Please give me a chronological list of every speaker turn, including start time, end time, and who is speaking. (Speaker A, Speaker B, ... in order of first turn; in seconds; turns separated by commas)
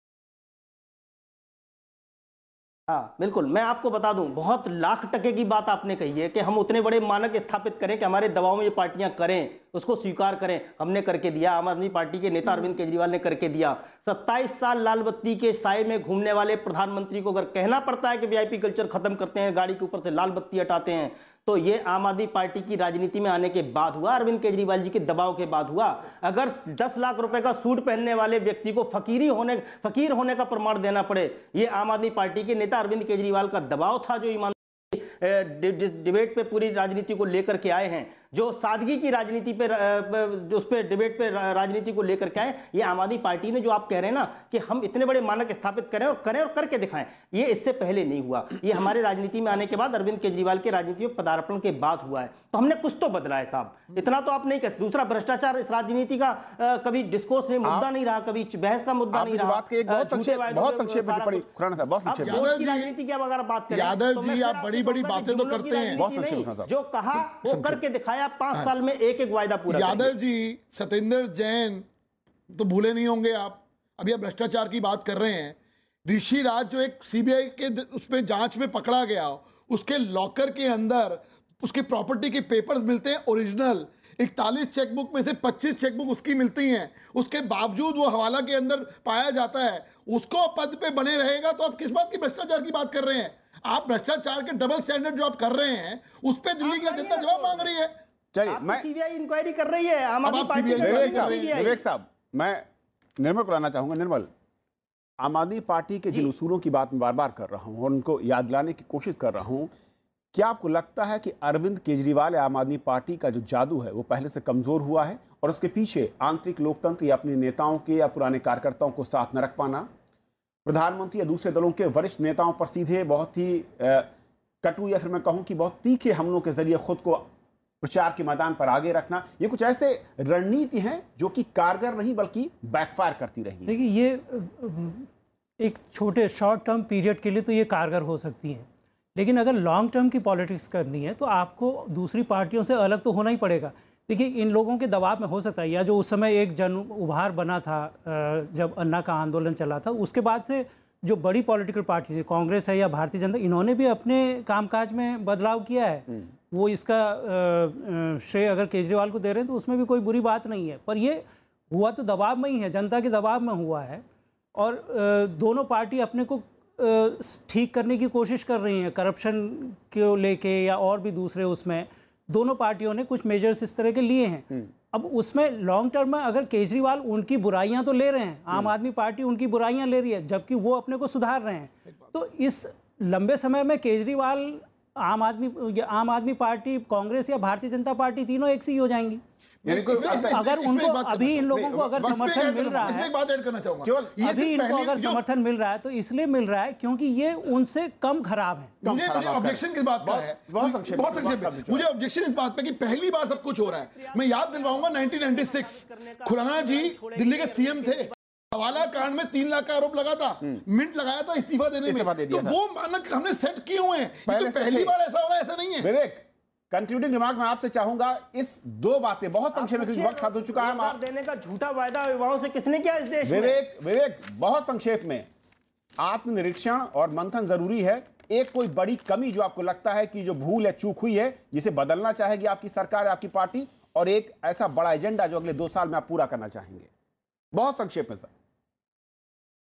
Speaker A: 2.9-61.5, Speaker B: 59.1-62.5, Speaker A: 62.0-70.1, Speaker C: 62.2-62.9, Speaker C: 63.7-66.0, Speaker B: 66.0-66.7, Speaker C: 67.4-67.8, Speaker C: 69.7-71.8, Speaker C: 72.5-97.9, Speaker A: 96.6-97.7, Speaker B: 98.3-98.9, Speaker A: 98.5-101.8, Speaker C: 100.2-101.7, Speaker B: 100.8-102.7, Speaker B: 103.2-104.3, Speaker B: 105.2-109.7, Speaker B: 110.3-119.9, Speaker B: 120.7-124.1, Speaker B: 124.6-127.3, Speaker B: 127.8-133.8, Speaker D: 133.7-135.1, Speaker D: 135.6-164.0, Speaker D: 164.6-189.2, Speaker B: 189.6-190.4, Speaker C: 189.7-195.2, Speaker D: 189.7-193.1, Speaker B: 191.5-192.0, Speaker B: 193.8-194.2, Speaker D: 194.2-198.7, Speaker B: 198.8-201.9, Speaker C: 198.8-215.9, Speaker A: 203.0-208.2, Speaker A: 208.7-209.1, Speaker B: 211.8-212.6, Speaker B: 214.2-214.9, Speaker B: 215.8-221.0, Speaker A: 219.6-223.6, Speaker B: 223.2-225.3, Speaker B: 226.0-236.9, Speaker B: 237.5-238.3